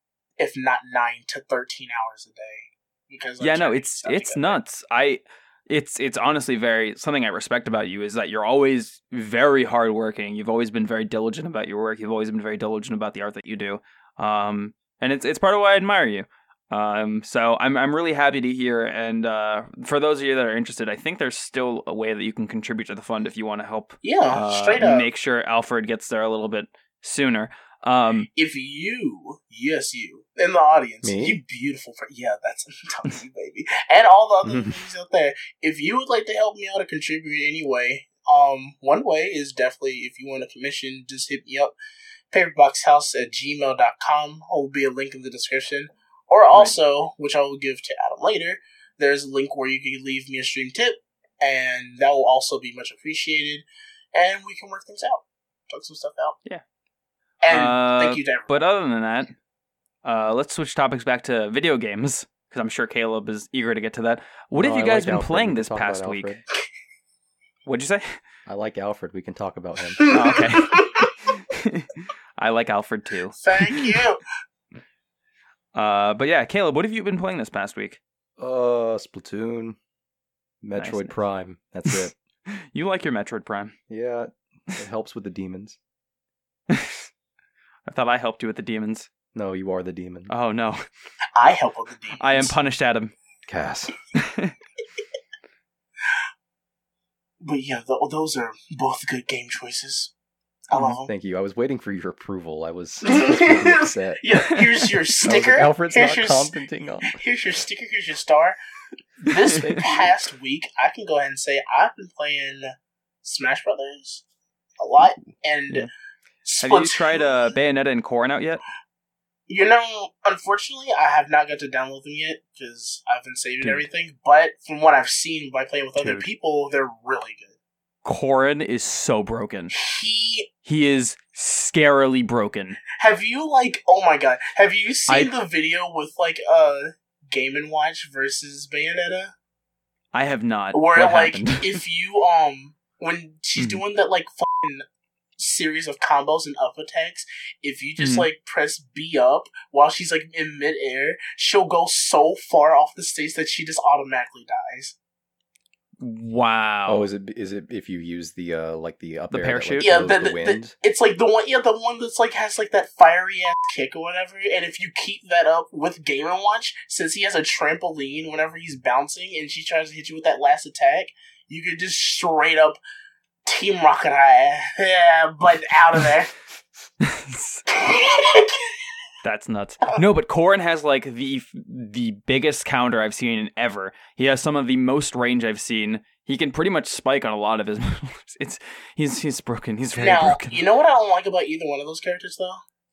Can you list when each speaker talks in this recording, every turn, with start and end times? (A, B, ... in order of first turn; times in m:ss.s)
0:00.4-0:04.6 A
0:03.4-0:28.3 B
0:24.0-0:25.1 A
0:28.3-0:41.7 A
0:31.0-0:31.4 C
0:34.4-0:34.8 C
0:42.3-0:56.4 A
0:57.4-0:58.5 A
0:57.5-0:59.3 B
1:00.0-1:06.3 B
1:04.6-1:06.4 C
1:07.6-1:08.2 B
1:08.4-1:10.0 C
1:10.0-1:11.1 A
1:10.1-1:10.8 B
1:11.5-1:13.9 B
1:13.4-1:14.2 A
1:15.7-1:18.0 B
1:18.4-1:19.8 C
1:20.6-1:22.1 C
1:20.8-1:21.2 B
1:21.9-1:23.8 B
1:23.9-1:25.8 C
1:26.7-1:27.1 B
1:27.8-1:29.1 B
1:29.3-1:30.3 C
1:30.3-1:30.8 B
1:31.4-1:32.5 A
1:32.2-1:33.1 B
1:33.5-1:33.9 C
1:34.2-1:34.5 B
1:37.4-1:40.1 A
1:40.7-1:41.1 A
1:41.0-1:44.2 C
1:43.0-1:46.5 A
1:45.2-1:47.2 C
1:47.1-1:48.6 A
1:49.2-1:52.7 A
1:49.3-1:49.8 B
1:49.6-1:50.1 C
1:53.2-1:54.2 A
1:54.8-1:55.9 A
1:56.4-1:57.5 A
1:56.6-1:58.6 B
1:59.5-2:07.5 A
2:03.6-2:03.8 B
2:06.0-2:06.3 B
2:08.0-2:09.7 B
2:09.7-2:10.5 A
2:10.6-2:12.8 B
2:13.0-2:19.3 A
2:15.1-2:15.3 B
2:20.1-2:21.8 B
2:20.7-2:24.8 A
2:23.6-2:23.8 B
2:25.4-2:35.0 A
2:28.0-2:28.3 B
2:36.0-2:37.0 B
2:36.9-2:40.7 C
2:39.3-2:39.9 B
2:39.8-2:52.8 A
2:53.4-2:56.3 A
2:57.0-2:57.6 B
2:57.7-2:58.7 A
2:59.2-3:10.6 B
3:10.0-3:12.6 A